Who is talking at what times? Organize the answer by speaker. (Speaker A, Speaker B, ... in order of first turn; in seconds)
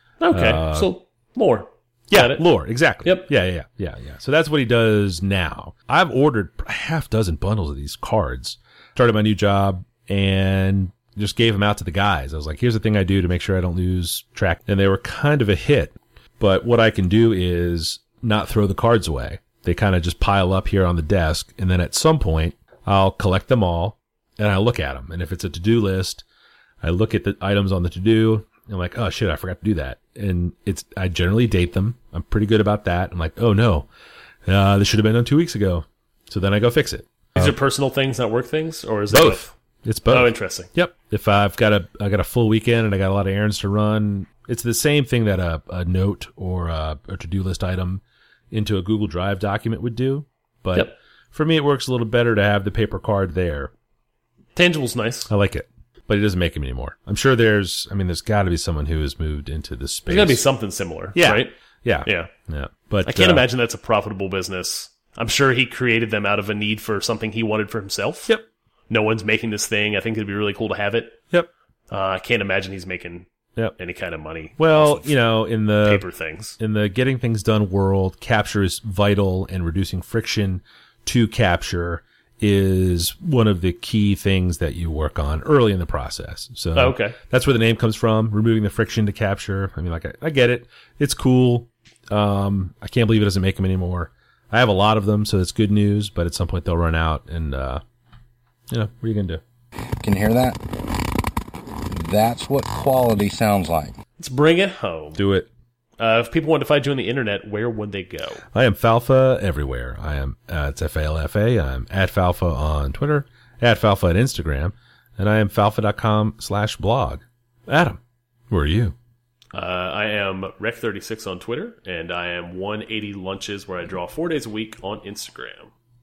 Speaker A: 0.2-2.4, 37.4-39.5, 40.1-40.7, 54.6-55.3, 60.1-61.5, 62.0-62.3, 63.0-68.3, 68.9-71.2, 71.9-75.2, 75.8-76.6, 86.8-87.2, 104.2-105.2, 106.0-108.4, 119.5-125.7
Speaker B: 0.3-0.9, 2.1-26.2, 26.8-33.9, 34.5-37.6, 39.1-53.7, 55.3-60.4, 61.1-63.5, 74.6-76.0, 76.6-97.8, 98.7-99.4, 105.2-105.5, 108.5-119.0
Speaker C: 100.0-100.7, 101.9-104.0